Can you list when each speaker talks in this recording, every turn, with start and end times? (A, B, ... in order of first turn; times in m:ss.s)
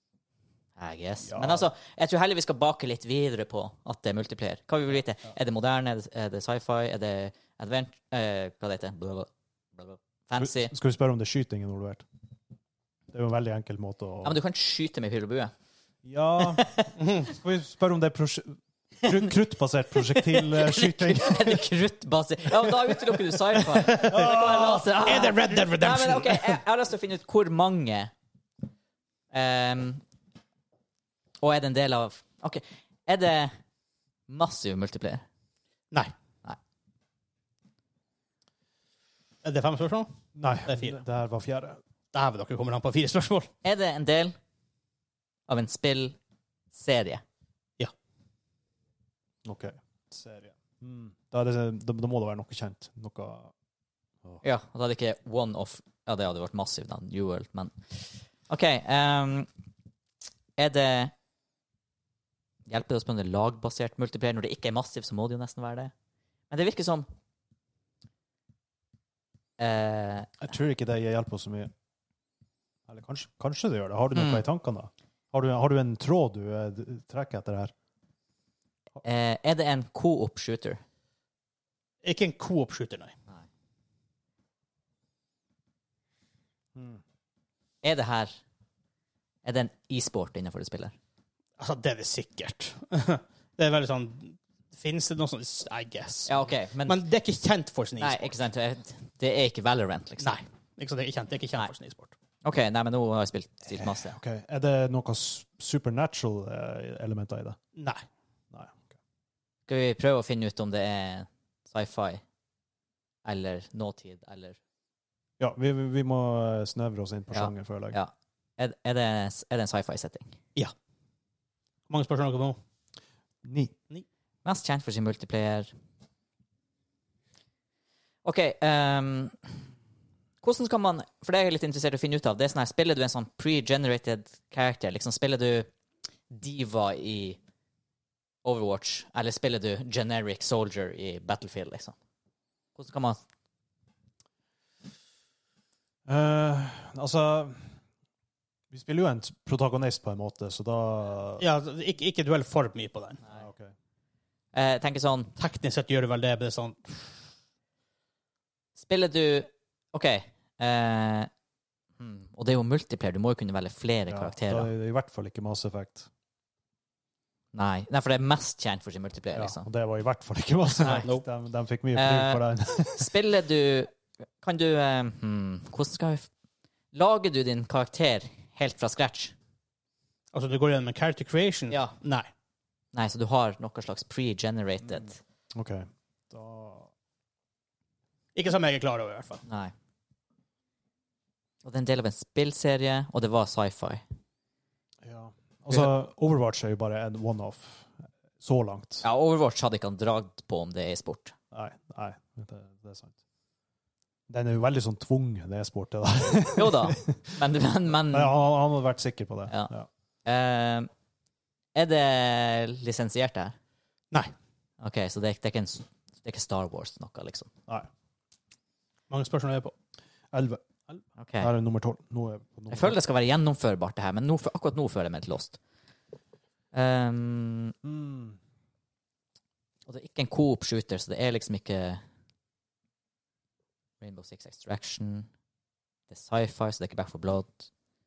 0:00.8-0:10.7 A
0:01.2-0:01.7 B
0:10.4-0:12.0 B
0:13.1-0:14.4 B
0:14.2-0:15.5 A
0:16.0-0:21.6 B
0:16.6-0:16.9 A
0:17.0-0:17.3 C
0:20.0-0:28.1 A
0:23.7-0:26.6 C
0:24.1-0:24.8 B
0:29.3-0:30.0 A
0:31.4-0:33.5 A
0:34.3-0:35.2 A
0:39.4-0:40.1 C
0:40.3-0:41.8 B
0:40.7-0:41.0 C
0:42.1-0:43.5 C
0:43.6-0:44.4 A
0:45.5-0:46.2 A
0:46.7-0:47.2 A
0:49.4-0:53.5 B
0:54.4-0:59.5 A
1:00.6-1:01.1 A
1:02.7-1:05.9 A
1:06.5-1:07.1 A
1:09.6-1:10.3 A
1:10.4-1:11.7 B
1:12.9-1:17.7 B
1:14.1-1:14.4 A
1:19.0-1:20.8 A
1:22.0-1:23.1 C
1:26.7-1:27.0 B
1:27.8-1:28.4 A
1:29.4-1:30.9 A
1:31.6-1:38.3 C
1:36.3-1:37.0 A
1:38.0-1:40.4 A
1:40.2-1:42.1 C
1:42.4-1:44.2 A
1:43.8-1:47.6 B
1:47.8-1:48.0 C
1:48.5-1:48.9 B
1:49.7-1:52.2 A
1:53.2-1:54.6 A
1:55.4-1:58.0 B
1:57.3-2:00.4 A
2:01.9-2:02.6 C
2:03.4-2:03.7 B
2:04.4-2:05.7 A
2:08.2-2:09.5 A
2:10.4-2:15.7 A
2:16.3-2:17.4 A
2:18.4-2:21.9 A
2:22.8-2:23.2 A
2:26.0-2:27.7 B
2:28.7-2:31.4 B
2:31.4-2:33.2 C
2:33.3-2:33.7 B
2:34.5-2:35.3 A
2:35.4-2:36.9 C
2:38.8-2:41.3 A
2:42.0-2:44.7 A
2:44.1-2:46.1 B
2:47.5-2:49.6 A
2:49.3-2:53.1 B
2:50.7-2:51.1 A
2:50.8-2:51.2 C
2:51.9-2:56.3 A
2:56.9-2:59.3 A
3:00.3-3:02.3 C
3:02.9-3:05.2 A
3:05.5-3:06.9 B
3:08.3-3:09.4 C
3:09.4-3:09.7 A
3:11.6-3:14.0 A
3:15.0-3:19.0 B
3:19.0-3:21.3 A
3:21.5-3:23.2 B
3:24.3-3:29.9 B
3:26.5-3:28.4 A
3:30.2-3:30.9 A
3:31.7-3:33.6 A
3:34.8-3:37.5 A
3:39.1-3:39.7 C
3:40.3-3:40.6 B
3:41.2-3:41.5 A
3:41.4-3:43.0 B
3:42.7-3:45.6 A
3:46.7-3:47.7 A
3:47.8-3:48.4 B
3:49.9-3:52.0 A
3:54.0-3:55.3 A
3:56.1-3:57.7 A